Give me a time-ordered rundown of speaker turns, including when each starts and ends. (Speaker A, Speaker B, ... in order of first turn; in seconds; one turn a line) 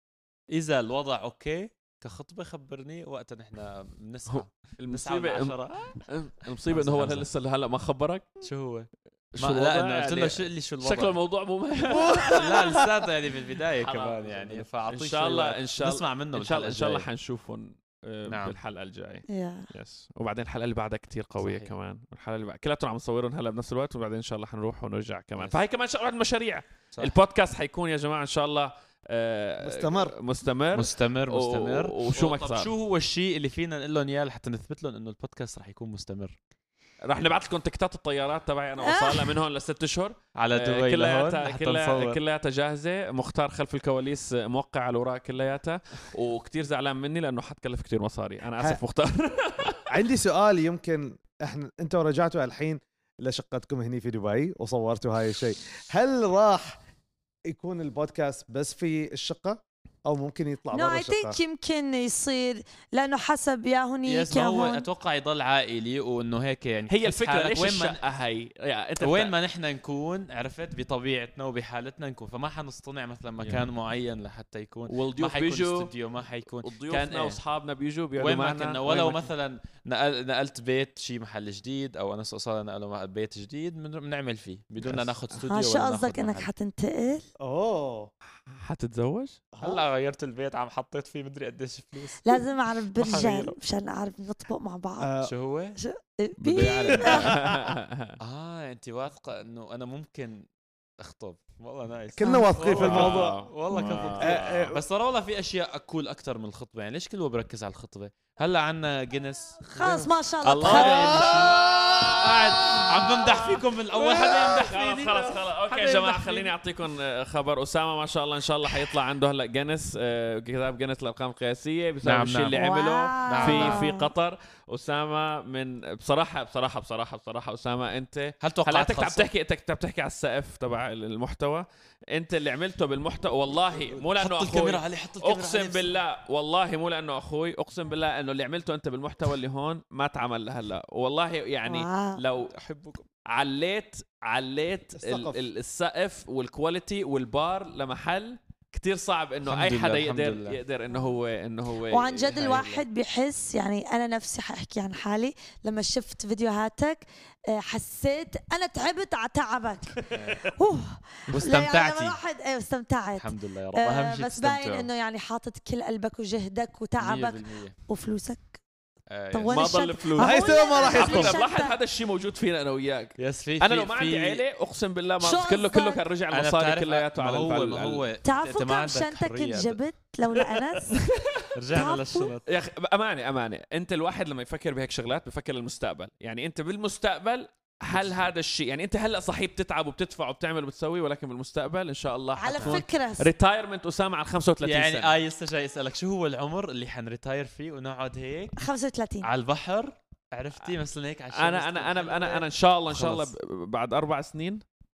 Speaker A: 0.5-5.9
Speaker B: 4.3-8.4
Speaker A: 6.6-7.3
Speaker A: 8.4-11.2
Speaker B: 9.3-12.9
Speaker C: 11.9-12.9
Speaker A: 12.2-17.1
Speaker B: 13.8-32.7
Speaker A: 18.2-18.6
Speaker D: 19.3-19.7
Speaker A: 21.4-21.8
Speaker C: 29.6-30.1
Speaker A: 30.7-36.4
Speaker B: 37.0-49.8
Speaker D: 38.8-39.4
Speaker A: 40.4-42.2
Speaker C: 49.9-56.8
Speaker C: 57.5-61.4
Speaker D: 60.7-64.8
Speaker A: 64.1-68.0
Speaker B: 66.9-69.3
Speaker A: 69.0-77.4
Speaker B: 74.9-75.9
Speaker B: 76.6-79.3
Speaker A: 78.2-86.5
Speaker D: 85.5-87.3
Speaker C: 87.4-88.1
Speaker B: 88.5-89.4
Speaker C: 89.5-89.8
Speaker A: 89.6-92.4
Speaker D: 92.2-95.1
Speaker A: 93.0-93.5
Speaker C: 95.0-95.3
Speaker A: 95.2-95.8
Speaker D: 95.8-97.3
Speaker B: 96.4-98.2
Speaker C: 97.0-97.7
Speaker A: 98.2-100.5
Speaker A: 101.0-111.5
Speaker C: 102.2-104.8
Speaker D: 102.2-102.5
Speaker B: 102.7-104.8
Speaker D: 109.7-111.2
Speaker B: 110.6-142.5
Speaker C: 110.7-112.1
Speaker A: 112.2-114.8
Speaker C: 114.0-116.5
Speaker A: 122.0-122.6
Speaker D: 122.5-124.1
Speaker A: 123.3-124.0
Speaker A: 128.4-129.3
Speaker A: 133.7-135.9
Speaker D: 141.7-142.2
Speaker A: 142.4-143.1
Speaker B: 143.3-152.7
Speaker C: 145.0-145.4
Speaker A: 149.4-150.6
Speaker D: 151.9-168.6
Speaker A: 152.3-152.8
Speaker A: 160.1-160.5
Speaker A: 161.3-162.2
Speaker A: 163.2-164.9
Speaker A: 167.0-167.8
Speaker A: 169.1-169.7
Speaker D: 169.3-171.8
Speaker B: 169.5-178.0
Speaker C: 170.2-171.4
Speaker A: 173.2-174.4
Speaker D: 175.2-176.0
Speaker A: 176.3-179.8
Speaker D: 178.2-181.1
Speaker B: 180.8-181.5
Speaker A: 181.6-182.5
Speaker D: 181.7-182.3
Speaker B: 182.5-195.1
Speaker A: 187.9-188.3
Speaker D: 192.4-193.3
Speaker A: 192.6-192.8
Speaker A: 194.6-198.6
Speaker D: 198.6-199.3
Speaker A: 199.2-203.3
Speaker B: 201.3-204.6